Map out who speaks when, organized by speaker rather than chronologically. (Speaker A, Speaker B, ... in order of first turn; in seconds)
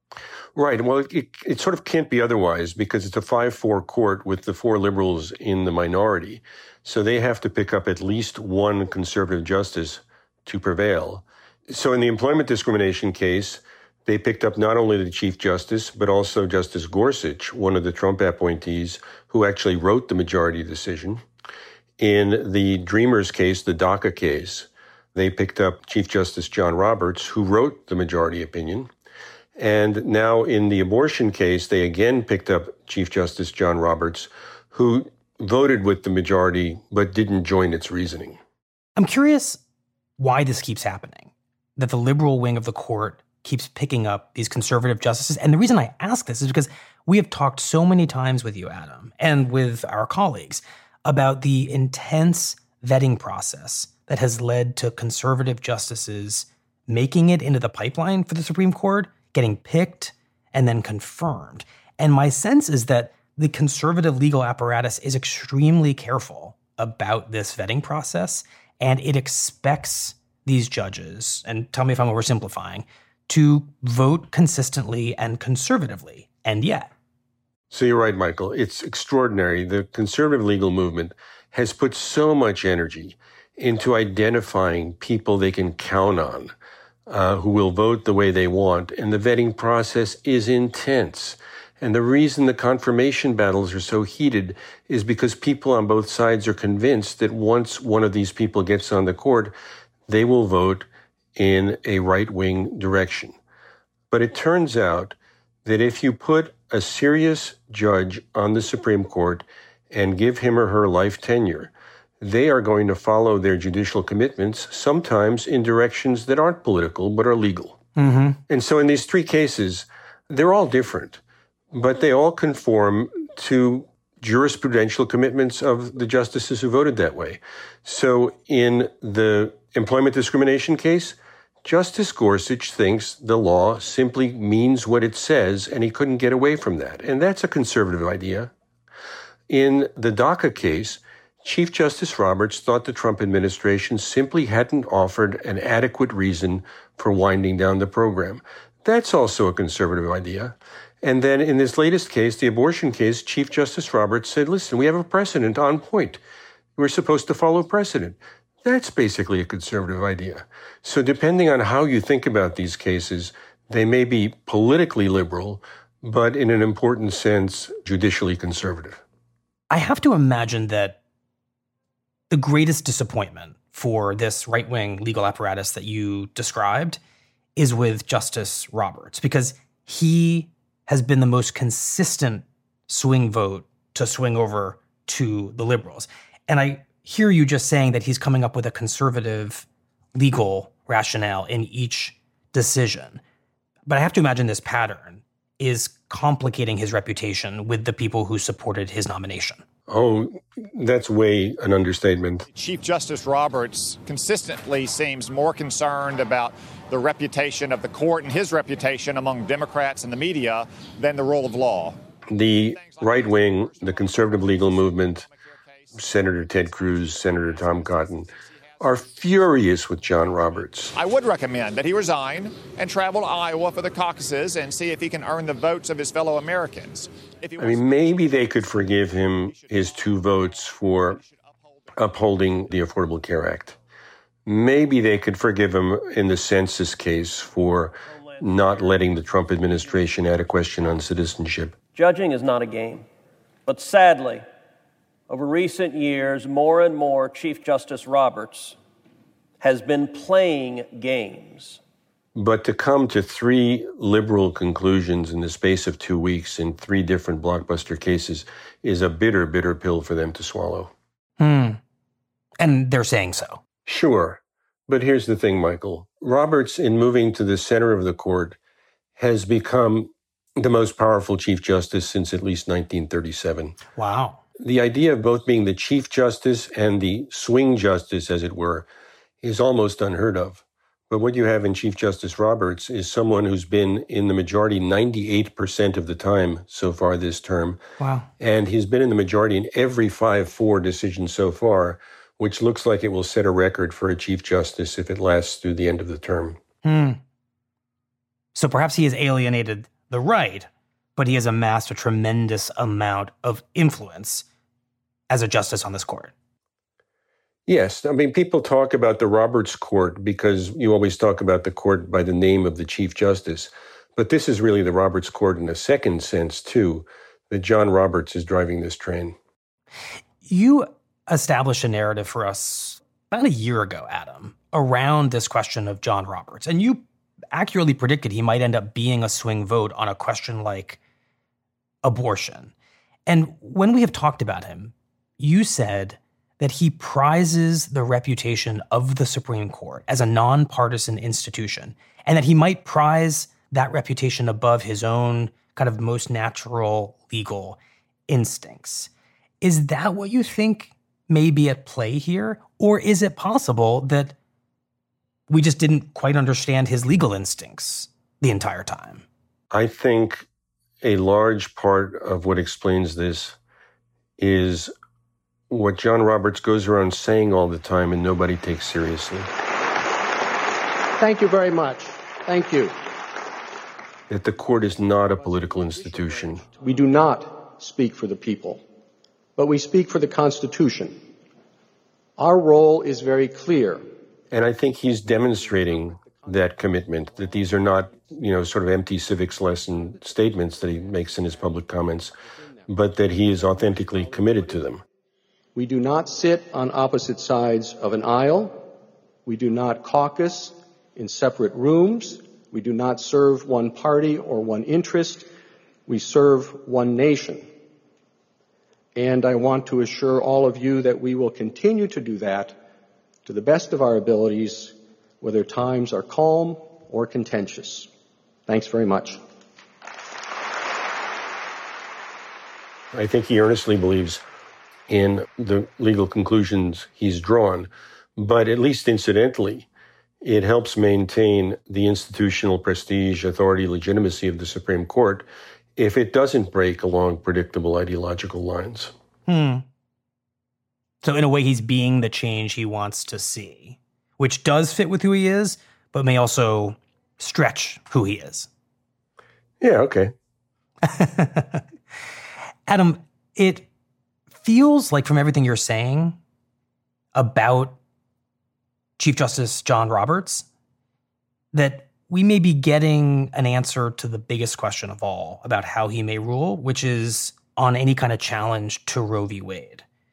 Speaker A: 0.6-21.2, 22.0-28.9, 29.6-38.4, 77.7-86.5, 87.1-99.5, 100.1-103.4, 104.1-117.8, 118.5-121.2, 121.7-138.5, 139.5-156.2, 156.8-169.0, 199.9-202.5, 212.3-215.3, 216.0-221.0, 227.6-231.2, 232.0-233.7, 234.5-241.8, 252.3-260.9, 263.9-268.6, 269.2-273.8, 274.6-278.9, 279.4-287.8, 288.4-296.6, 307.7-319.4, 359.7-360.5, 361.0-363.6, 364.4-364.9, 365.7-369.5, 374.3-376.6, 384.5-392.4, 392.9-395.0, 423.1-424.4, 425.1-429.9, 430.4-439.1, 449.8-450.3
Speaker B: 39.0-39.6, 40.2-76.9, 118.0-118.4, 169.7-171.0, 172.3-177.0, 177.6-193.2, 193.9-199.6, 261.4-261.8, 262.6-263.6, 274.0-274.4, 288.0-288.3, 296.8-297.2, 298.6-304.4, 305.3-306.3, 320.5-331.0, 332.0-332.7, 333.3-349.1, 349.6-354.4, 355.5-359.2, 439.5-439.9, 441.2-448.7, 451.1-451.8, 452.9-453.9, 454.6-456.4, 457.4-458.0, 459.2-460.7, 461.7-470.0
Speaker C: 202.5-212.0, 212.7-216.0, 217.0-218.8, 220.9-228.0, 229.3-231.9
Speaker D: 241.9-243.1, 243.7-244.5, 245.3-248.8, 249.6-251.8
Speaker E: 371.2-373.1, 374.6-378.8, 379.6-381.2, 382.4-384.1, 385.5-388.4, 389.9-395.0, 395.8-398.8, 399.5-405.5, 406.1-407.7, 409.2-412.8, 413.5-418.1, 418.7-419.4